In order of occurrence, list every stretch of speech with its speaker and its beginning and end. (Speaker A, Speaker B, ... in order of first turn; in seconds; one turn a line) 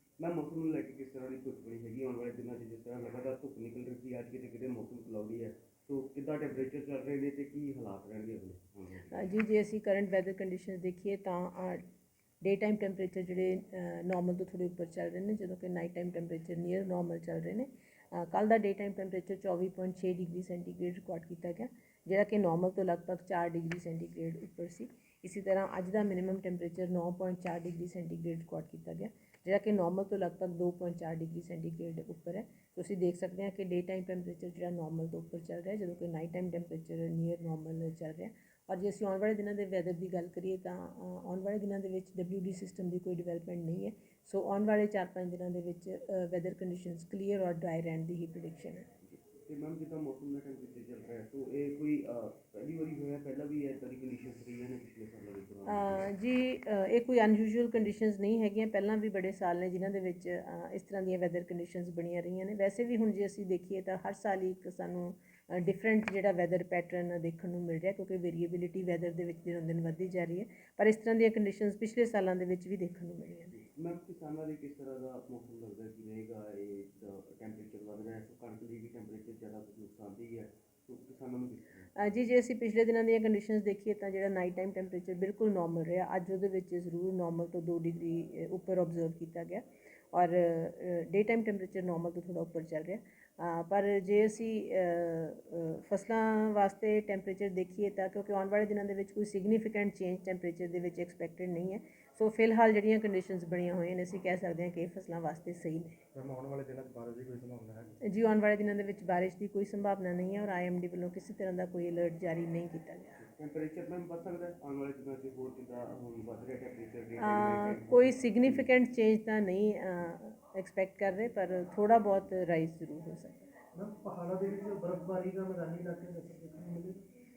Speaker A: 0.2-9.3
Speaker B: 9.1-11.8
Speaker B: 12.4-48.9
Speaker A: 49.0-56.1
Speaker B: 55.7-73.5
Speaker A: 73.5-81.9
Speaker B: 82.0-106.0
Speaker C: 106.1-107.9
Speaker B: 108.1-113.2
Speaker A: 113.2-118.7
Speaker B: 117.2-123.5
Speaker C: 123.7-127.0